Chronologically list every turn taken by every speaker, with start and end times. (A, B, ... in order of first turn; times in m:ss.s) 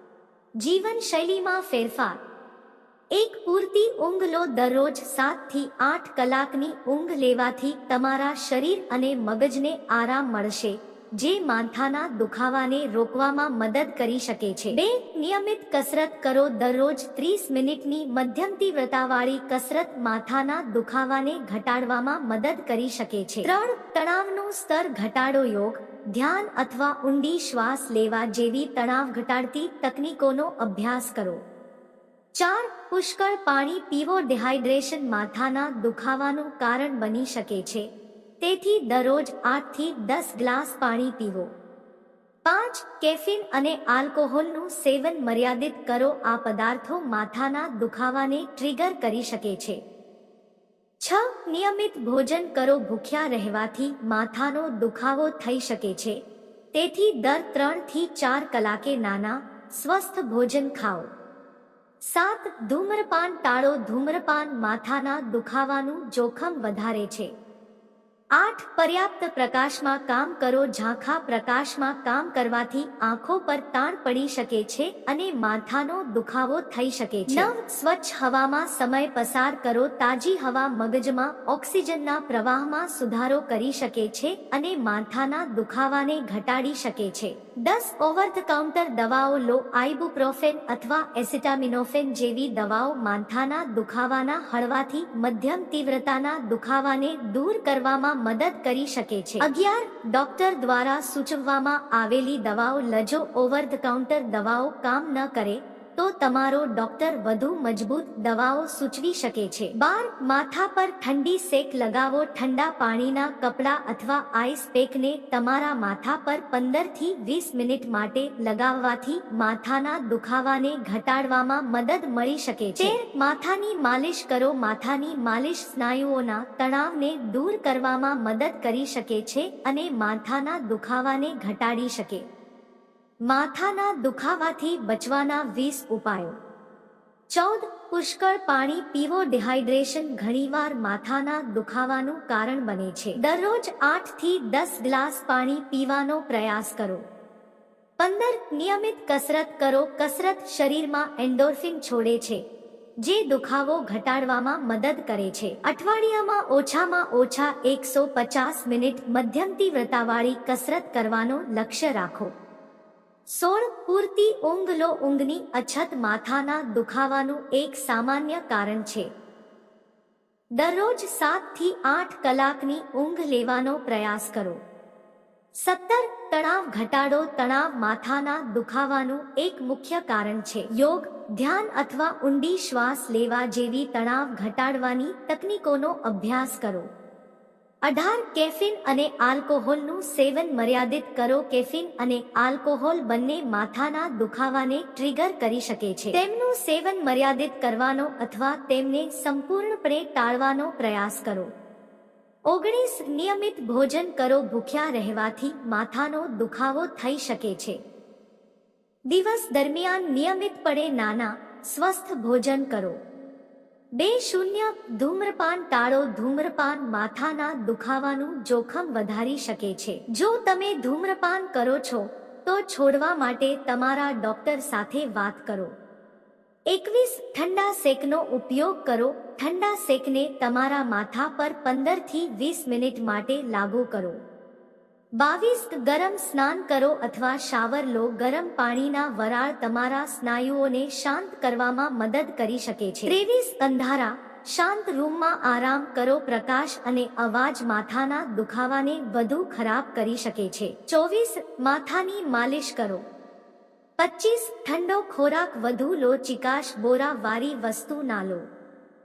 0:00.6-0:02.2 A
0:03.1-0:31.4 A
0:32.4-0:37.9 A
0:38.4-0:41.5 A
0:42.4-0:49.8 A
0:51.0-0:56.2 A
0:56.7-1:01.1 A
1:02.0-1:07.3 A
1:08.4-2:12.2 A
2:13.2-2:16.4 A
2:17.3-2:27.0 A
2:28.0-2:32.4 A
2:33.0-2:42.3 A
2:43.3-2:49.1 A
2:50.6-2:54.6 A
2:55.6-3:06.9 A
3:07.8-3:21.5 A
3:22.5-3:27.8 A
3:29.1-3:33.0 A
3:34.0-3:45.7 A
3:46.7-3:54.2 A
3:55.2-4:13.0 A
4:14.0-4:18.4 A